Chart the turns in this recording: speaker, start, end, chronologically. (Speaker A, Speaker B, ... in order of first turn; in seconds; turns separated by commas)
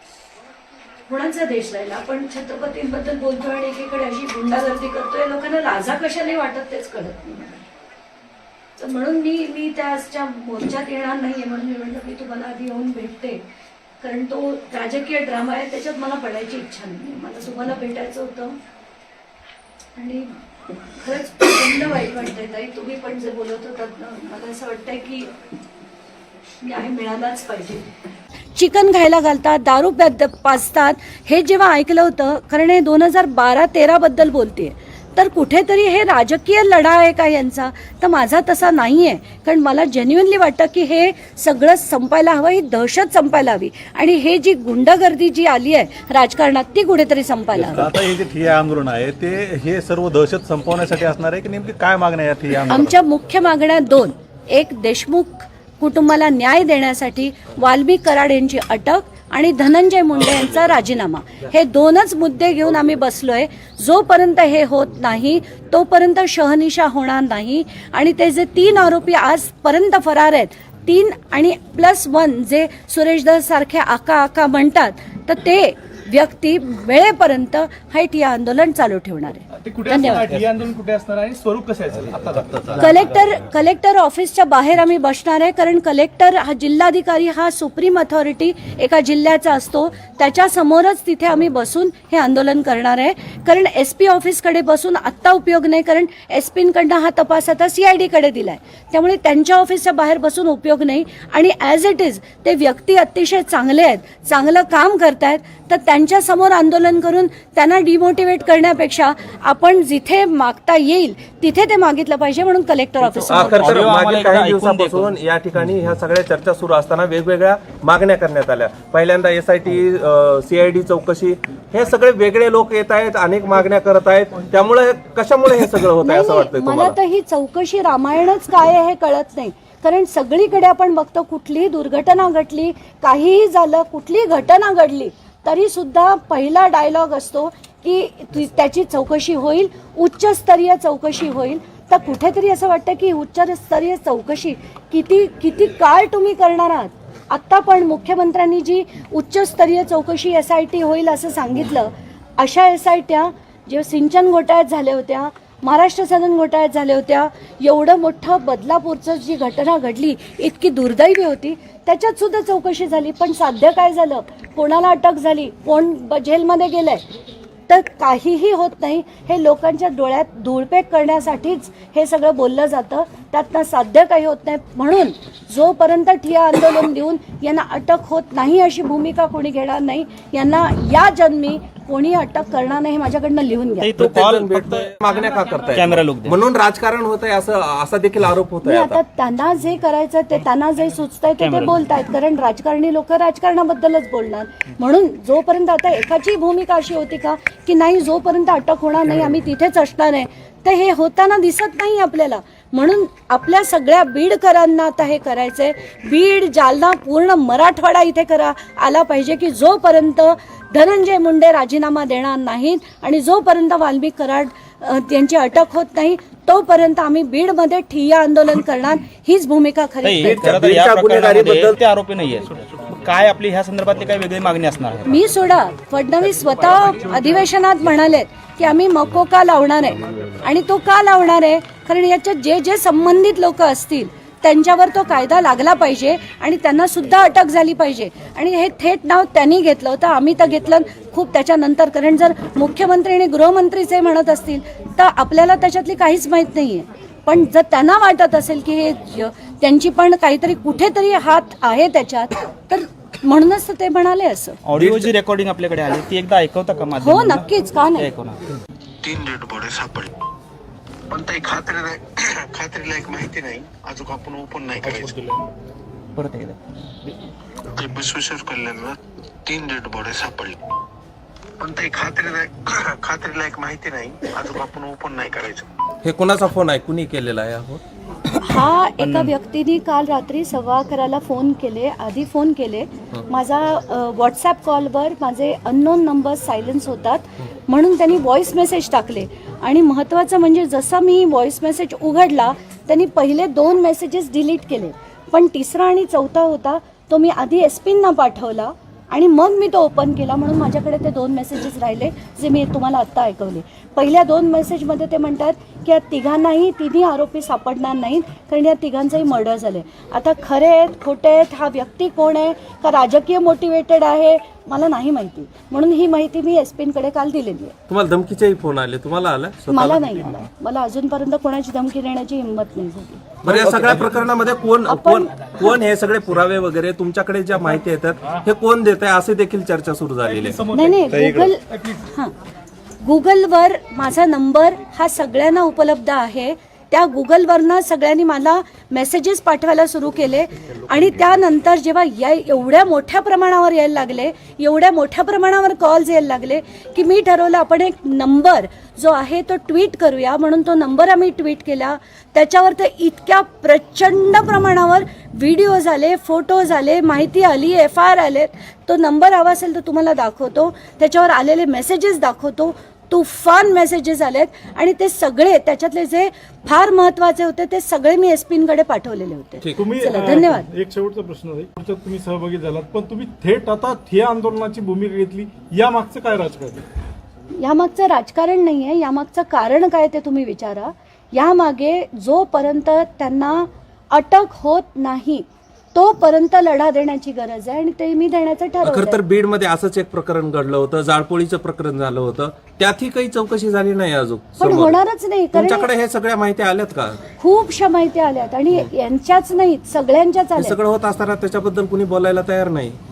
Speaker A: 1.1-7.6, Speaker A: 8.8-13.4, Speaker A: 14.0-18.6, Speaker A: 19.9-20.4, Speaker A: 20.9-25.3, Speaker A: 26.6-27.9, Speaker A: 28.5-47.9, Speaker B: 47.6-52.9, Speaker A: 52.7-80.3, Speaker C: 79.7-82.3, Speaker B: 80.3-81.2, Speaker B: 82.0-82.8, Speaker A: 82.8-113.8, Speaker D: 113.0-115.1, Speaker E: 113.3-127.0, Speaker A: 126.0-167.0, Speaker A: 167.7-183.9, Speaker D: 183.8-184.9, Speaker E: 183.9-189.0, Speaker D: 185.6-186.4, Speaker A: 188.6-220.5, Speaker D: 191.4-191.7, Speaker D: 220.0-225.1, Speaker E: 220.2-221.8, Speaker A: 225.1-254.6, Speaker D: 254.6-258.4, Speaker E: 254.8-255.1, Speaker A: 257.0-258.1, Speaker F: 259.0-260.1, Speaker F: 261.1-265.2, Speaker G: 264.8-265.1, Speaker D: 266.1-266.6, Speaker F: 267.7-270.6, Speaker F: 271.6-275.7, Speaker E: 276.0-277.8, Speaker A: 278.4-317.7, Speaker D: 279.0-279.3, Speaker E: 317.9-320.4, Speaker A: 319.7-323.2, Speaker E: 323.4-330.6, Speaker B: 323.4-324.0, Speaker A: 324.9-325.8, Speaker A: 330.7-332.3, Speaker B: 331.1-331.5, Speaker A: 333.0-370.7, Speaker G: 369.8-376.8, Speaker A: 377.5-389.2, Speaker E: 388.8-395.0, Speaker A: 394.6-395.9, Speaker E: 395.5-397.2, Speaker A: 397.4-400.8, Speaker E: 400.6-403.0